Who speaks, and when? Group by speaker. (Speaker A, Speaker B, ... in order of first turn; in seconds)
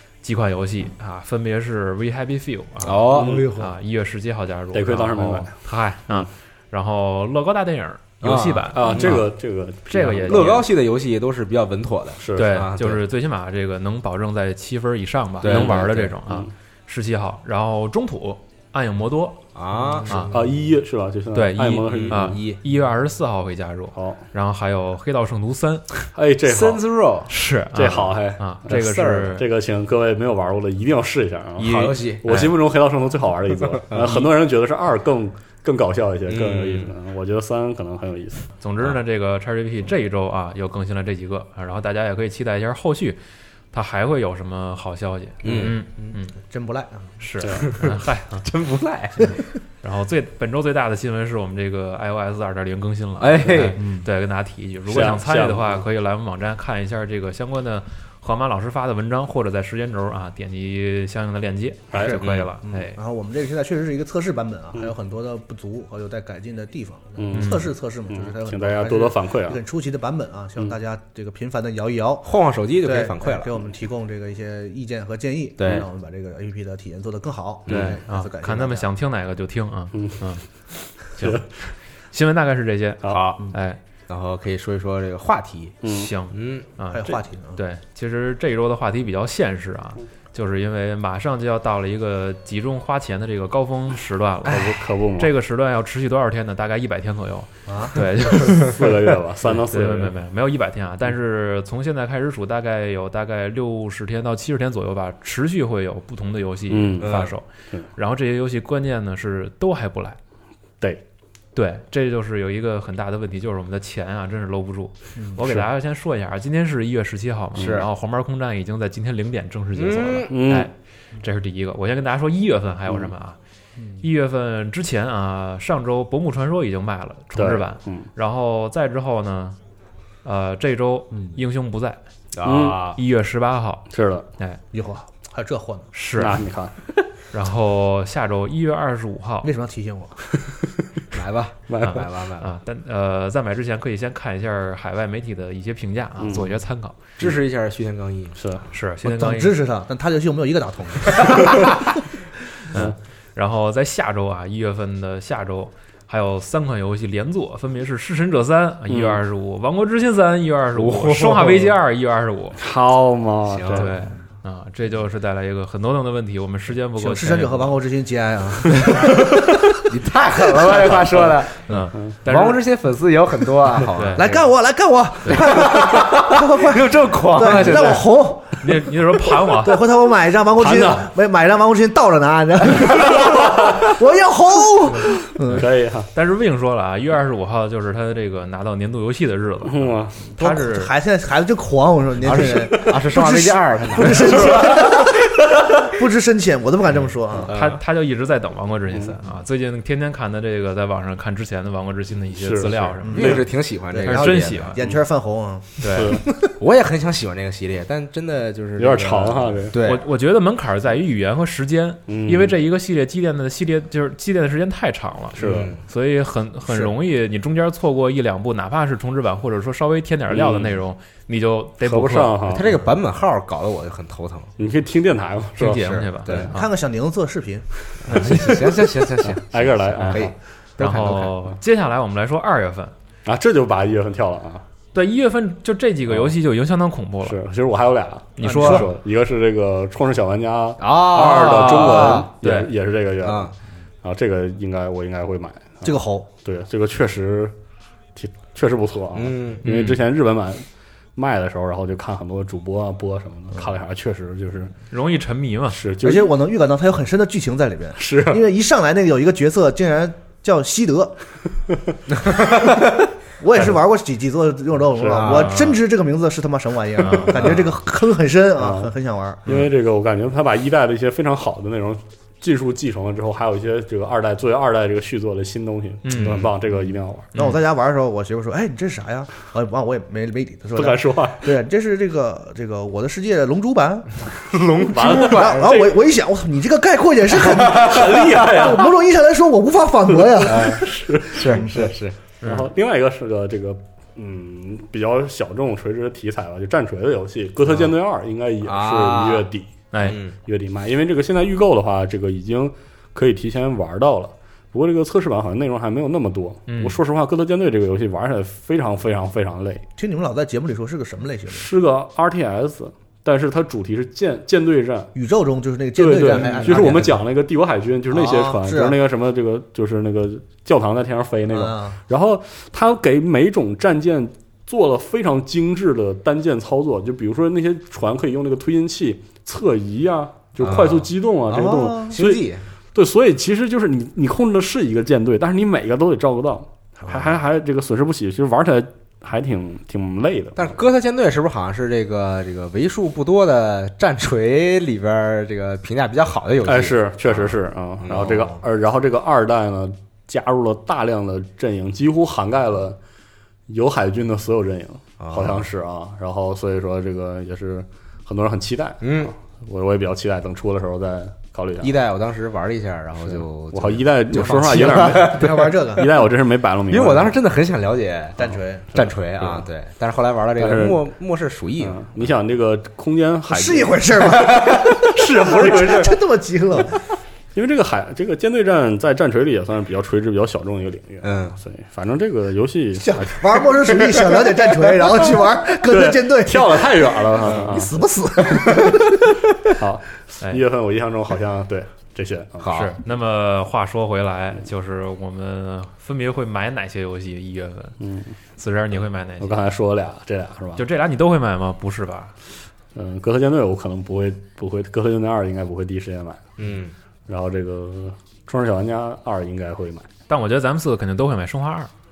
Speaker A: 0.2-9.3, 9.9-10.6, 12.3-19.4, 20.1-20.3, 21.3-25.9, 27.3-29.4, 31.6-32.5, 38.6-43.2, 43.7-46.3, 47.2-48.4, 49.8-63.0, 67.3-67.7, 77.7-80.4, 81.2-81.4, 82.1-83.8, 85.9-98.8, 99.5-110.2, 111.5-123.4, 124.0-129.6, 130.2-132.0, 132.9-133.8, 135.9-136.4, 137.3-139.5, 141.8-147.0, 148.7-149.6, 152.7-162.6, 163.7-167.8, 171.7-172.6, 173.9-174.2, 178.6-179.8, 185.5-190.9, 197.5-203.4, 204.0-204.8, 205.8-206.2, 209.8-222.3, 225.6-226.7, 228.1-228.5, 230.8-232.9, 234.9-237.4, 238.4-238.8, 241.1-242.7, 249.6-250.0, 254.9-255.8, 265.2-265.8, 267.0-267.4, 276.0-276.5, 277.3-277.6, 292.4-292.7, 299.9-300.2, 306.7-307.0, 392.7-397.9, 398.6-399.6, 400.8-402.3, 410.3-411.9
Speaker B: 2.8-3.5, 8.2-9.2, 10.3-13.0, 15.4-16.1, 19.5-20.4, 21.9-22.6, 26.4-27.3, 28.7-29.3, 31.6-32.2, 33.9-34.2, 36.3-36.9, 45.4-45.8, 47.5-49.4, 53.2-53.8, 62.1-62.5, 72.2-73.6, 75.6-75.8, 77.7-78.0, 83.1-83.5, 84.1-85.8, 86.3-86.7, 107.0-107.3, 117.5-117.9, 119.7-120.3, 132.3-133.0, 141.1-142.5, 147.2-148.4, 160.7-161.7, 163.5-163.9, 169.9-171.7, 172.2-174.5, 175.3-178.1, 192.2-194.8, 197.4-197.8, 203.1-204.7, 206.6-210.0, 215.4-215.8, 222.4-224.5, 225.6-226.5, 228.0-231.4, 240.8-242.3, 243.2-243.5, 249.1-249.6, 262.2-262.8, 265.1-265.5, 276.2-276.5, 284.5-285.7, 287.5-288.8, 290.4-292.1, 297.6-297.9, 298.6-299.5, 300.0-300.3, 316.3-317.2, 330.6-331.1, 332.1-332.6, 340.6-348.6, 355.2-355.7, 359.0-359.3, 361.8-365.8, 366.9-372.3, 374.3-376.0, 381.2-381.6, 383.9-384.3, 387.4-387.7, 388.5-388.9, 392.6-393.0, 406.6-406.9
Speaker C: 3.1-3.5, 4.7-5.5, 8.7-10.6, 12.2-12.6, 15.4-16.5, 19.9-22.4, 23.9-24.2, 26.1-26.8, 27.7-38.5, 54.9-55.8, 61.9-62.2, 67.2-69.6, 77.7-77.9, 79.9-80.2, 81.2-81.7, 85.8-86.1, 94.5-95.3, 98.4-100.1, 106.7-107.2, 120.3-120.7, 127.3-128.1, 132.4-132.9, 133.9-134.3, 136.2-136.7, 141.7-142.0, 146.2-146.6, 148.3-148.7, 158.9-159.2, 162.6-163.9, 180.6-181.1, 185.5-186.1, 189.7-190.2, 194.1-194.7, 202.4-203.4, 205.9-206.2, 208.8-209.7, 212.1-212.5, 215.3-215.7, 220.3-220.8, 221.8-222.8, 224.6-225.9, 229.2-230.3, 233.2-234.6, 237.2-247.5, 248.2-250.6, 251.2-254.7, 255.7-256.3, 258.0-258.4, 264.9-265.5, 267.3-267.6, 268.6-268.9, 269.4-277.3, 280.7-281.5, 284.8-286.0, 287.4-289.0, 290.1-291.8, 292.4-299.7, 300.4-309.8, 311.5-315.1, 315.9-340.7, 346.6-353.0, 353.7-361.9, 363.2-367.4, 368.9-369.6, 370.6-371.1, 371.8-374.4, 375.1-376.1, 377.5-383.7, 385.8-388.0, 389.7-392.7, 398.0-398.3, 399.4-400.8, 402.9-406.4, 407.3-410.1
Speaker D: 3.1-3.7, 46.0-47.1, 62.0-72.3, 72.8-78.9, 86.9-87.6, 97.7-98.0, 134.7-135.9, 139.4-140.2, 149.0-151.8, 167.0-169.8, 170.6-170.9, 174.2-185.7, 190.4-195.2, 195.8-197.5, 203.0-206.5, 226.3-228.1, 238.4-238.9, 245.8-246.3, 256.0-261.2, 263.4-269.4, 277.3-284.2, 285.1-290.8, 291.5-291.9, 310.0-311.7, 315.1-317.1, 318.1-318.9, 321.5-321.9, 331.5-332.1, 365.1-366.1, 368.4-368.9, 373.5-377.0, 383.0-389.3